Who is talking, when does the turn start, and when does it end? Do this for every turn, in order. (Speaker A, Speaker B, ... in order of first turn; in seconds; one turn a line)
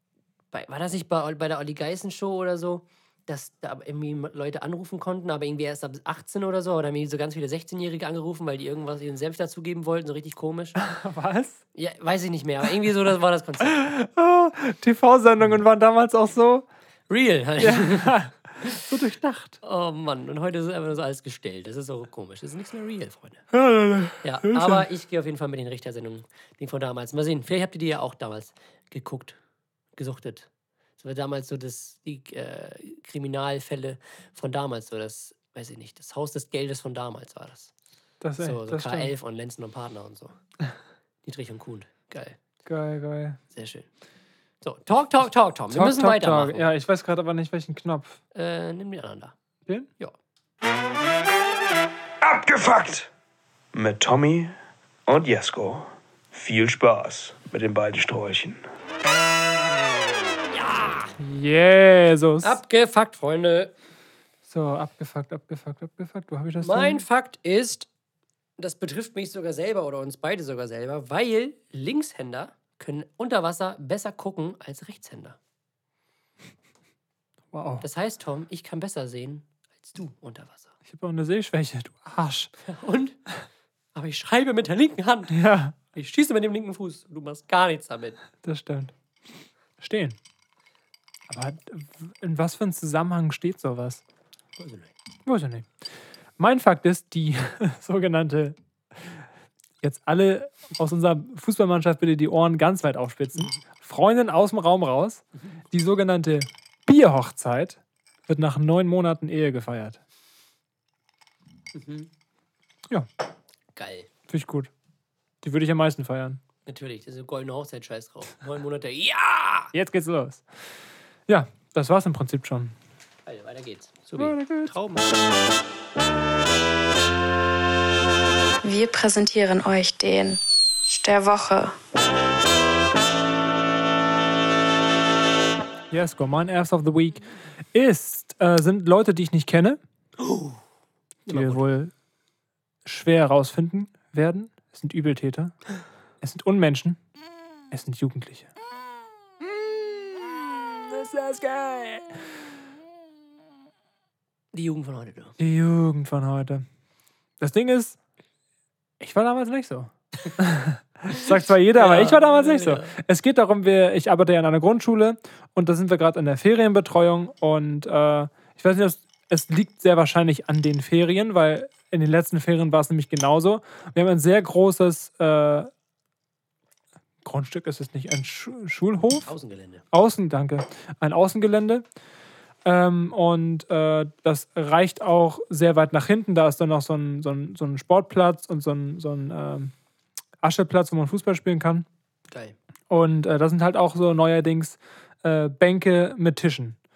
Speaker A: 0.5-10.8
Speaker B: 10.8-11.6
Speaker A: 11.7-13.9
Speaker B: 13.6-16.6
Speaker A: 17.1-18.8
Speaker B: 17.6-19.6
Speaker A: 19.6-23.4
Speaker B: 23.5-24.9
Speaker A: 24.2-29.4
Speaker A: 29.9-30.5
Speaker A: 31.0-37.7
Speaker B: 38.2-39.1
Speaker A: 38.4-40.3
Speaker A: 41.2-42.4
Speaker B: 42.6-43.4
Speaker A: 43.5-43.9
Speaker A: 44.6-46.6
Speaker B: 45.7-48.2
Speaker A: 48.3-49.3
Speaker C: 52.2-53.0
Speaker C: 53.8-54.5
Speaker C: 55.1-55.8
Speaker C: 56.4-58.6
Speaker A: 60.5-61.1
Speaker B: 61.2-62.6
Speaker A: 62.4-63.7
Speaker B: 64.5-67.0
Speaker A: 66.6-67.9
Speaker A: 68.6-75.4
Speaker B: 77.5-77.8
Speaker A: 77.8-80.7
Speaker B: 80.9-82.5
Speaker A: 82.6-83.2
Speaker A: 83.9-85.3
Speaker B: 85.3-85.8
Speaker A: 85.9-88.2
Speaker B: 88.4-88.9
Speaker B: 89.8-90.2
Speaker B: 91.3-94.0
Speaker A: 94.6-94.9
Speaker B: 95.2-95.7
Speaker B: 96.4-98.5
Speaker B: 99.8-110.0
Speaker A: 111.7-112.1
Speaker A: 113.8-114.1
Speaker B: 114.3-114.7
Speaker B: 115.4-116.4
Speaker A: 116.7-119.7
Speaker B: 119.7-120.4
Speaker B: 121.3-122.7
Speaker A: 123.2-125.1
Speaker B: 124.2-124.7
Speaker D: 128.6-131.7
Speaker B: 135.9-139.8
Speaker A: 140.2-140.6
Speaker A: 141.3-141.6
Speaker B: 141.3-141.9
Speaker B: 142.8-145.5
Speaker B: 146.2-147.0
Speaker B: 147.7-148.5
Speaker B: 149.4-152.2
Speaker A: 154.5-155.3
Speaker B: 155.4-156.6
Speaker B: 157.4-158.0
Speaker B: 159.0-175.7
Speaker A: 161.8-162.9
Speaker B: 177.2-179.3
Speaker A: 179.2-179.8
Speaker B: 179.9-181.8
Speaker B: 182.6-189.7
Speaker B: 190.4-191.8
Speaker A: 192.3-192.6
Speaker B: 192.9-196.8